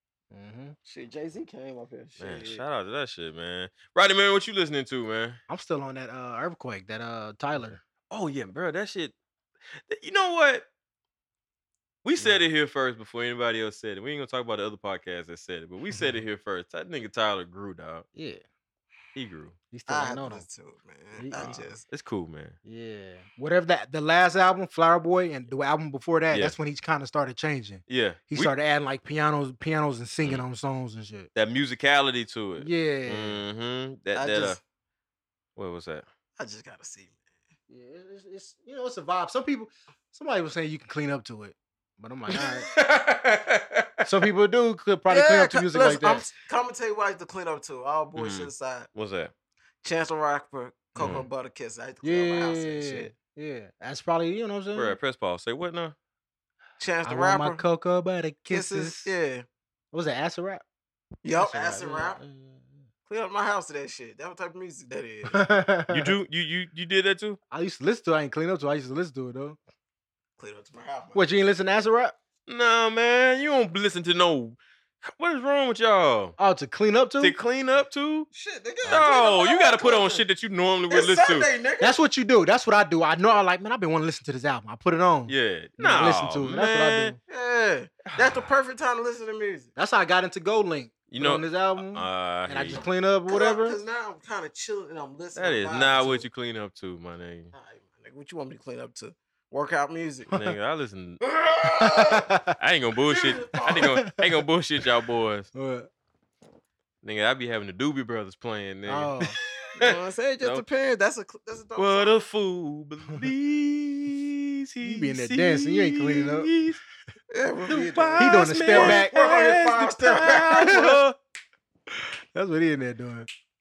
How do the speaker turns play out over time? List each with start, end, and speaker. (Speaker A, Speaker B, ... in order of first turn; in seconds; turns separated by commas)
Speaker A: 0.3-0.7, Speaker B: 0.8-2.6, Speaker C: 2.2-5.4, Speaker A: 5.5-7.8, Speaker C: 8.1-9.1, Speaker C: 9.8-10.7, Speaker C: 12.0-18.1, Speaker A: 15.9-16.2, Speaker A: 18.1-18.4, Speaker C: 19.1-19.6, Speaker A: 19.7-20.4, Speaker B: 19.9-21.8, Speaker A: 21.1-21.7, Speaker C: 21.3-22.6, Speaker A: 22.6-31.3, Speaker C: 27.9-28.5, Speaker C: 31.3-34.6, Speaker A: 32.6-33.5, Speaker B: 34.1-34.6, Speaker C: 35.5-36.1, Speaker B: 36.4-37.2, Speaker A: 37.7-42.7, Speaker C: 42.3-44.3, Speaker A: 44.0-46.3, Speaker B: 45.1-48.9, Speaker C: 48.1-49.3, Speaker B: 49.8-53.1, Speaker C: 51.0-51.2, Speaker A: 51.0-51.3, Speaker A: 52.0-55.0, Speaker C: 54.7-55.9, Speaker B: 56.8-57.6, Speaker A: 57.0-59.1, Speaker B: 58.5-59.5, Speaker A: 59.9-60.6, Speaker B: 61.2-62.2, Speaker A: 61.4-62.8, Speaker B: 63.1-65.4, Speaker A: 65.3-66.1, Speaker C: 65.9-67.4, Speaker A: 67.5-69.6, Speaker B: 70.4-71.3, Speaker A: 71.1-72.1, Speaker C: 72.5-76.3, Speaker A: 76.4-77.3, Speaker C: 77.2-78.3, Speaker B: 78.3-80.2, Speaker C: 78.9-81.5, Speaker B: 80.9-82.0, Speaker A: 81.8-87.2, Speaker C: 85.3-87.2, Speaker B: 87.3-89.7, Speaker C: 88.0-88.4, Speaker A: 89.8-93.8, Speaker C: 91.1-92.8, Speaker B: 93.3-96.2, Speaker C: 95.3-97.5, Speaker B: 97.5-100.3, Speaker C: 100.3-101.2, Speaker B: 101.2-102.3, Speaker A: 102.0-102.5, Speaker C: 102.5-105.5, Speaker B: 103.0-104.0, Speaker A: 103.7-104.2, Speaker A: 105.5-105.9, Speaker C: 107.0-110.6, Speaker A: 108.9-109.4, Speaker B: 109.7-112.2, Speaker C: 111.8-116.8, Speaker A: 114.8-116.5, Speaker B: 117.3-120.8, Speaker C: 117.7-121.2, Speaker A: 118.2-119.2, Speaker A: 120.5-121.0, Speaker A: 122.3-123.3